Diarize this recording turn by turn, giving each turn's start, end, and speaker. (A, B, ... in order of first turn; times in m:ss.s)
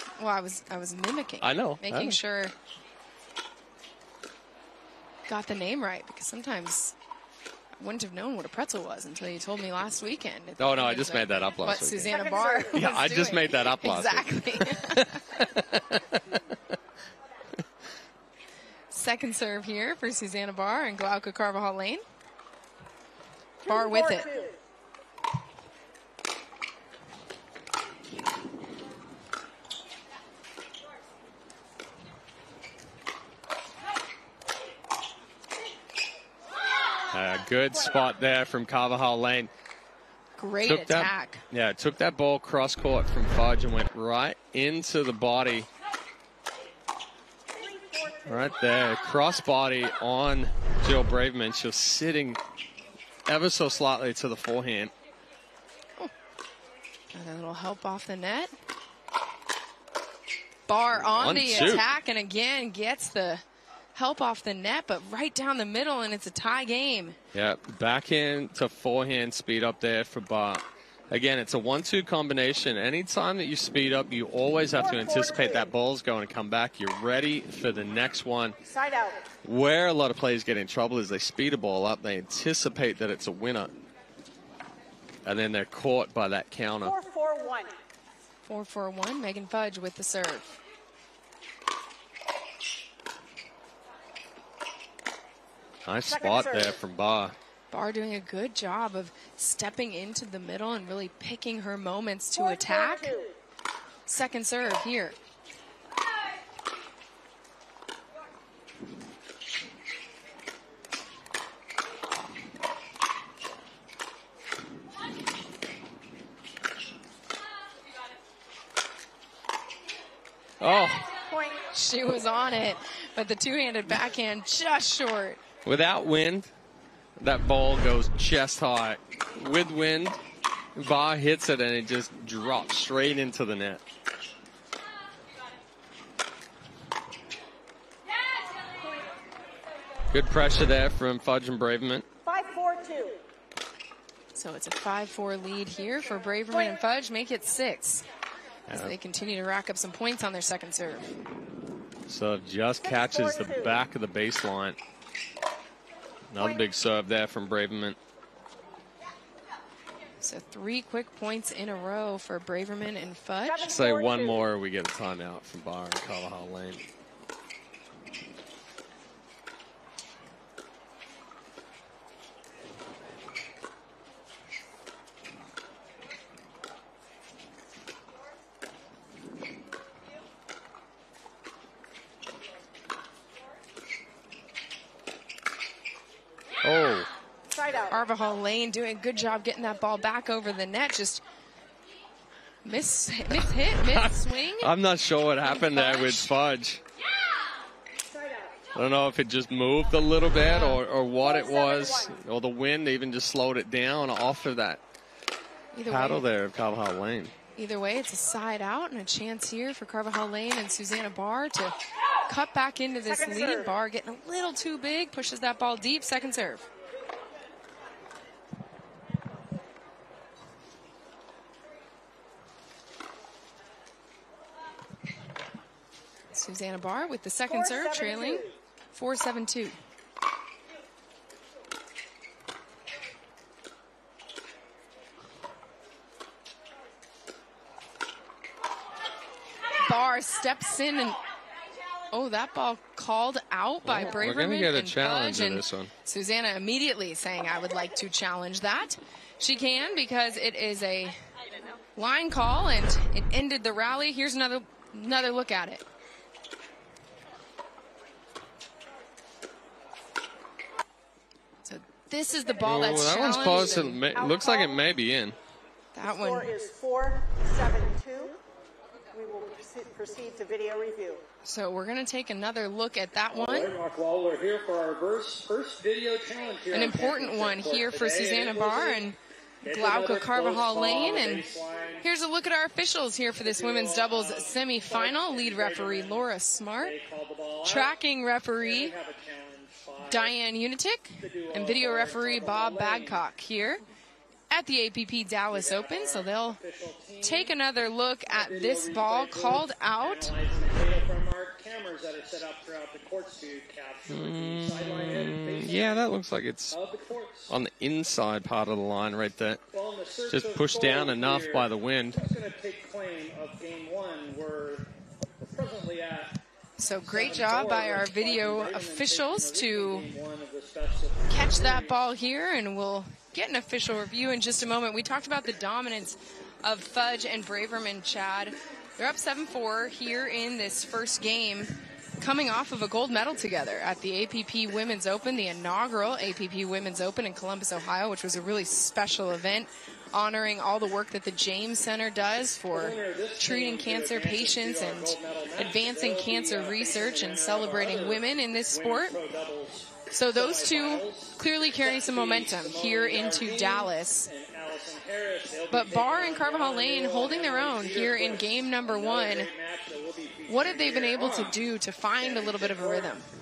0:00.2-0:02.5 A
0:01.4-0:02.2 B
0:05.3-0:07.0 A
0:07.8-0:15.4 A
0:10.6-0:16.4 B
0:12.1-0:12.8 C
0:18.9-0:22.0 A
0:23.6-0:24.6 C
0:23.7-0:24.3 A
0:37.1-0:39.5 B
0:40.4-0:41.4 A
0:40.6-0:45.7 B
0:47.5-0:48.6 C
0:48.3-0:52.4 B
0:53.3-0:54.9 B
0:57.1-0:58.5 A
1:00.7-1:03.4 A
1:00.9-1:01.8 B
1:04.0-1:07.2 A
1:07.3-1:18.6 B
1:14.8-1:15.7 C
1:18.7-1:19.2 C
1:19.4-1:23.7 B
1:25.2-1:27.0 B
1:26.8-1:27.8 C
1:28.4-1:30.6 A
1:35.8-1:37.4 B
1:36.1-1:36.8 C
1:37.7-1:43.1 A
1:42.4-1:43.4 C
1:44.1-1:45.2 A
2:00.6-2:01.1 B
2:01.3-2:01.6 C
2:01.7-2:05.4 A
2:05.6-2:06.5 B
2:07.2-2:10.2 B
2:10.8-2:13.8 B
2:20.1-2:22.0 B
2:22.2-2:23.2 C
2:24.4-2:28.0 A
2:26.5-2:26.8 C
2:28.7-2:31.2 A
2:32.1-2:34.8 B
2:32.8-2:33.8 C
2:36.3-2:38.0 B
2:40.2-2:43.7 A
2:43.4-2:44.5 C
2:43.6-2:46.8 B
3:06.6-3:07.1 B
3:07.5-3:07.9 C
3:07.9-3:11.2 A
3:12.6-3:14.7 A
3:13.9-3:16.8 B
3:15.4-3:16.3 A
3:18.0-3:18.6 C
3:18.8-3:24.8 B
3:21.2-3:22.2 C
3:25.7-3:26.2 A
3:25.9-3:27.3 B
3:27.6-3:31.8 A
3:32.3-3:36.7 A
3:33.0-3:33.8 C
3:46.3-3:49.8 A
3:47.5-3:48.6 C
3:59.8-4:01.2 A
4:02.1-4:11.2 A
4:03.8-4:05.9 B
4:12.0-4:15.8 A
4:21.6-4:24.0 A
4:22.5-4:24.8 C
4:22.6-4:25.4 B
4:25.9-4:26.5 A
4:26.0-4:28.4 C
4:29.1-4:31.2 C
4:31.4-4:33.8 A
4:33.3-4:39.1 D
4:36.7-4:39.2 A
4:39.6-4:42.1 D
4:39.7-4:41.5 A
4:42.0-4:46.9 A
4:43.4-4:50.4 D
4:47.6-4:49.0 A
4:50.0-4:53.8 A
4:51.2-4:53.3 D
4:54.5-4:56.6 A
4:55.5-4:57.6 D
4:57.2-5:00.4 A
4:58.3-5:06.1 D
5:04.1-5:06.8 B
5:06.7-5:07.5 D
5:07.5-5:09.6 B
5:09.7-5:16.4 D
5:10.3-5:12.3 B
5:16.8-5:20.1 A
5:17.0-5:22.0 D
5:21.3-5:49.2 A
5:42.7-6:01.6 D
5:50.1-5:54.3 A
5:55.7-5:59.5 A
6:00.5-6:03.3 A
6:02.2-6:03.2 D